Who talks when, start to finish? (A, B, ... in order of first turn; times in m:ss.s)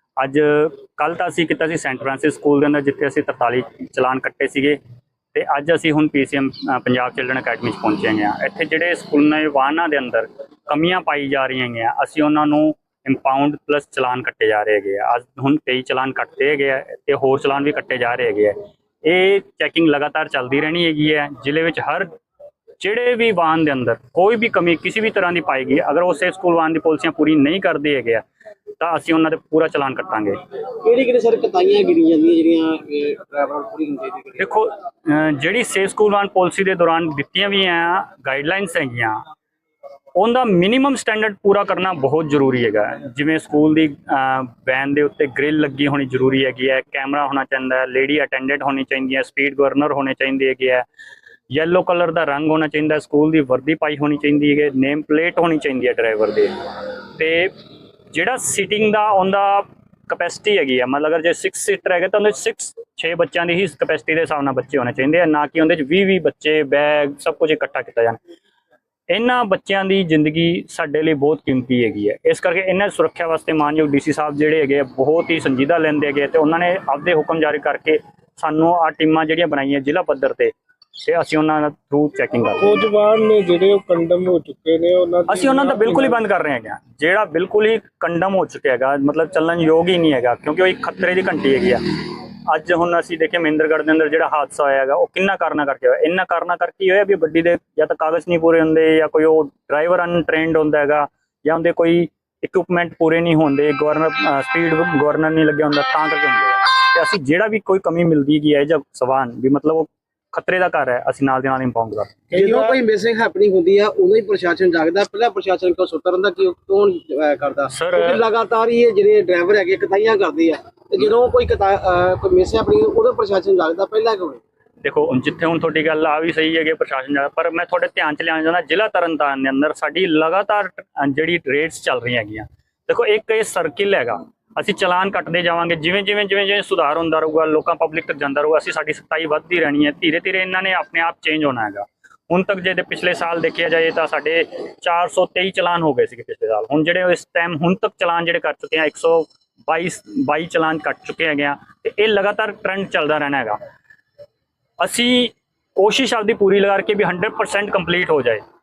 0:00.2-0:04.8 A
0:05.3-0:22.1 A
0:22.8-0:28.2 A
0:28.8-0:30.4 A
0:30.8-0:34.5 B
0:34.4-0:39.2 A
0:40.2-0:50.9 A
0:51.5-0:56.5 A
0:57.2-0:57.5 A
0:58.1-1:08.2 A
1:09.1-1:22.8 A
1:22.6-1:26.2 C
1:25.3-1:31.8 A
1:32.5-1:52.1 A
1:52.3-1:52.8 C
1:52.3-2:04.4 B
1:57.7-1:58.2 A
2:04.8-2:33.6 A
2:34.8-2:38.4 A